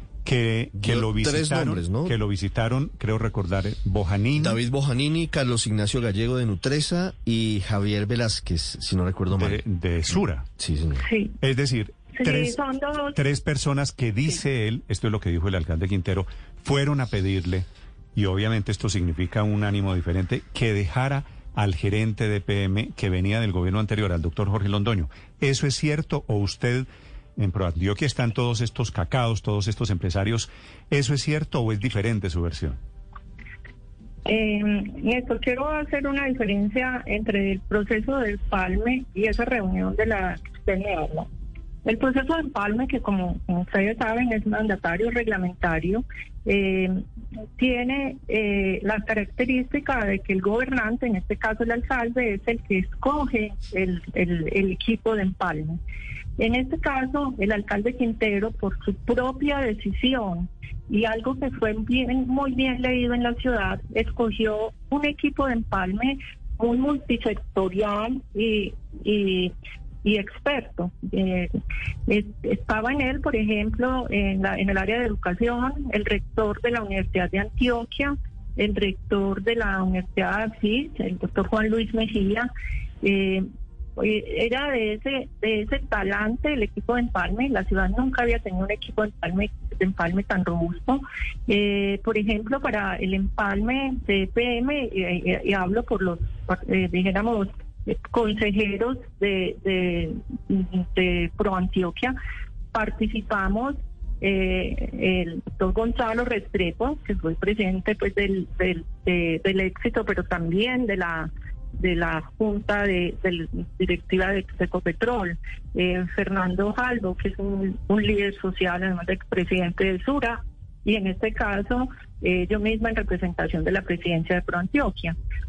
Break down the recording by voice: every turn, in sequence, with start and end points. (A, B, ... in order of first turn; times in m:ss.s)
0:00.2-0:04.6 A
0:00.8-0:02.1 B
0:04.4-0:09.6 B
0:09.3-0:10.5 A
0:10.6-0:11.0 B
0:11.0-0:11.4 C
0:11.4-0:12.6 A
0:12.1-0:13.2 C
0:13.1-0:32.8 A
0:34.2-0:41.3 C
0:41.8-0:47.0 C
0:47.6-0:55.8 C
0:56.4-1:09.5 C
1:10.0-1:11.6 C
1:12.1-1:22.5 C
1:23.0-1:42.1 C
1:42.7-2:05.2 C